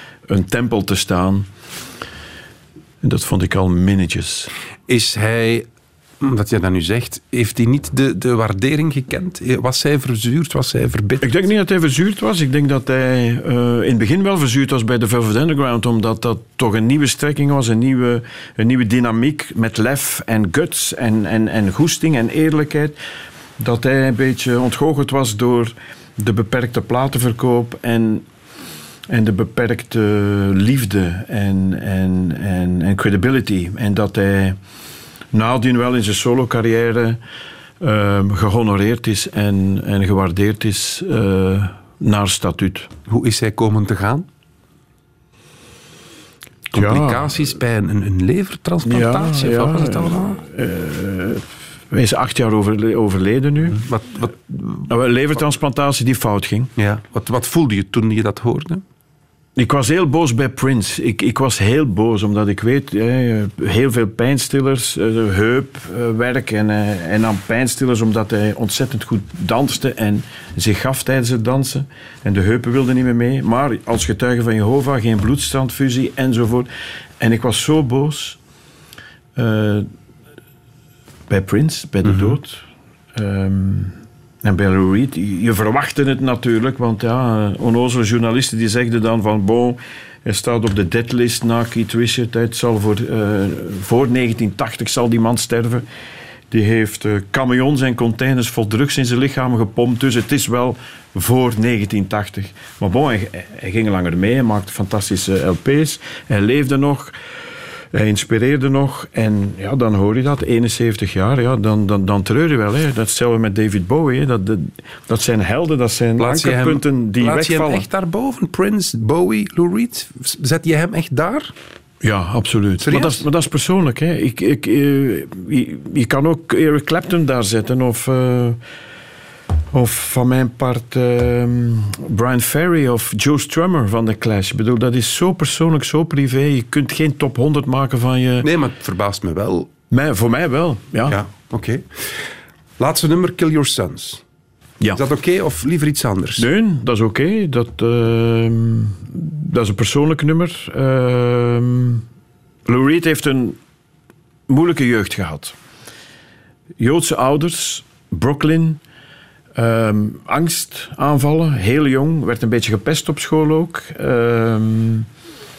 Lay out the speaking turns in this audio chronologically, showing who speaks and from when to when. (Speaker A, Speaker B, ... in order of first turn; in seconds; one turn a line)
Speaker A: 0.3-1.5
Speaker A: 3.0-4.5
Speaker B: 4.9-5.7
Speaker B: 6.2-11.3
Speaker A: 11.2-23.0
Speaker A: 23.6-28.2
Speaker A: 29.1-34.6
Speaker A: 35.3-37.2
Speaker A: 37.8-42.9
Speaker B: 43.1-44.2
Speaker A: 46.7-47.4
Speaker B: 46.7-50.4
Speaker A: 48.8-53.8
Speaker B: 53.7-54.9
Speaker A: 54.9-56.7
Speaker B: 56.8-58.8
Speaker A: 59.6-76.7
Speaker A: 77.2-78.4
Speaker A: 79.4-79.9
Speaker A: 81.3-82.6
Speaker B: 82.0-82.4
Speaker A: 83.1-95.9
Speaker A: 96.5-107.1
Speaker A: 107.9-117.9
Speaker B: 116.2-121.5
Speaker A: 122.0-128.6
Speaker B: 122.8-123.2
Speaker A: 129.7-138.5
Speaker B: 138.4-139.7
Speaker A: 139.9-141.2
Speaker B: 141.1-142.2
Speaker B: 142.8-144.2
Speaker B: 144.9-146.4
Speaker A: 146.4-152.0
Speaker A: 152.7-153.6
Speaker A: 154.5-155.6
Speaker A: 156.8-158.8
Speaker A: 159.6-165.1